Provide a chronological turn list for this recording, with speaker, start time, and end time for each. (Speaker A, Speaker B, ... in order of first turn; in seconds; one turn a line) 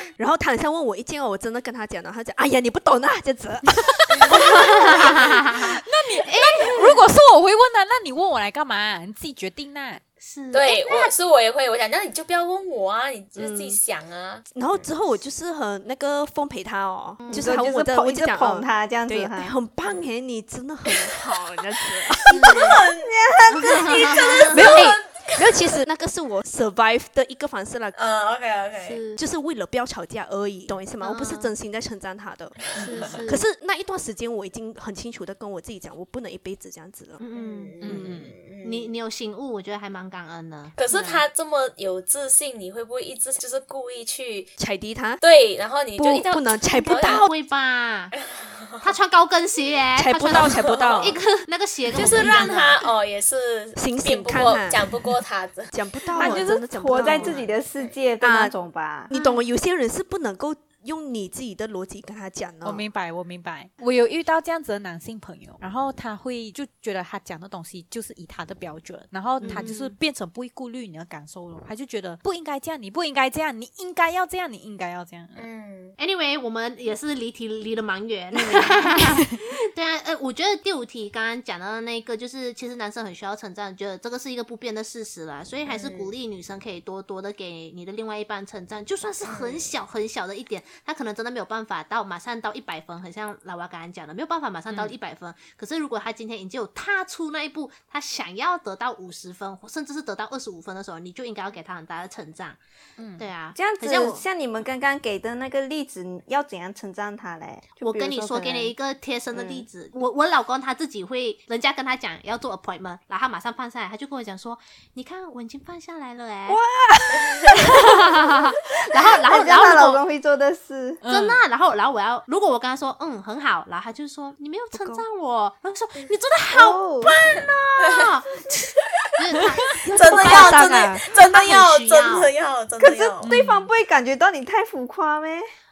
Speaker A: 0.2-4.9
Speaker B: 4.4-7.0
Speaker C: 4.9-10.0
Speaker B: 10.2-11.1
Speaker D: 10.5-14.9
Speaker B: 13.4-13.8
Speaker A: 14.5-22.6
Speaker E: 17.3-19.5
Speaker D: 22.3-23.1
Speaker B: 22.3-22.8
Speaker E: 23.0-24.3
Speaker B: 23.5-24.5
Speaker D: 23.9-25.8
Speaker A: 24.5-28.0
Speaker D: 27.9-29.0
Speaker B: 28.8-29.2
Speaker A: 29.2-37.2
Speaker B: 31.0-31.5
Speaker D: 32.8-33.2
Speaker B: 32.8-33.4
Speaker B: 37.2-41.2
Speaker D: 37.3-38.9
Speaker C: 37.8-38.2
Speaker D: 40.8-44.5
Speaker A: 44.6-45.2
Speaker D: 45.2-47.3
Speaker A: 46.0-47.3
Speaker B: 46.8-48.1
Speaker D: 48.4-48.9
Speaker B: 48.8-52.8
Speaker A: 50.0-51.2
Speaker D: 50.3-51.2
Speaker D: 51.9-56.5
Speaker A: 52.0-52.3
Speaker A: 53.8-55.1
Speaker A: 55.7-57.4
Speaker E: 56.1-59.1
Speaker D: 57.0-57.9
Speaker A: 58.2-58.5
Speaker A: 59.1-62.8
Speaker B: 59.1-59.4
Speaker C: 62.6-75.5
Speaker B: 69.4-69.9
Speaker D: 75.4-76.0
Speaker B: 76.0-102.6
Speaker C: 79.0-79.3
Speaker D: 85.7-86.1
Speaker D: 89.2-89.7
Speaker C: 103.0-103.2
Speaker B: 103.2-104.2
Speaker E: 103.5-108.7
Speaker B: 107.8-116.6
Speaker E: 109.3-109.7
Speaker A: 116.5-117.6
Speaker B: 117.6-120.0
Speaker E: 119.0-121.0
Speaker C: 121.0-121.4
Speaker B: 121.1-128.5
Speaker A: 124.7-125.1
Speaker E: 126.5-127.2
Speaker B: 129.2-129.7
Speaker A: 129.8-131.0
Speaker D: 130.0-133.3
Speaker E: 130.1-130.9
Speaker B: 130.2-130.5
Speaker B: 131.1-132.3
Speaker E: 132.8-135.5
Speaker C: 133.2-133.7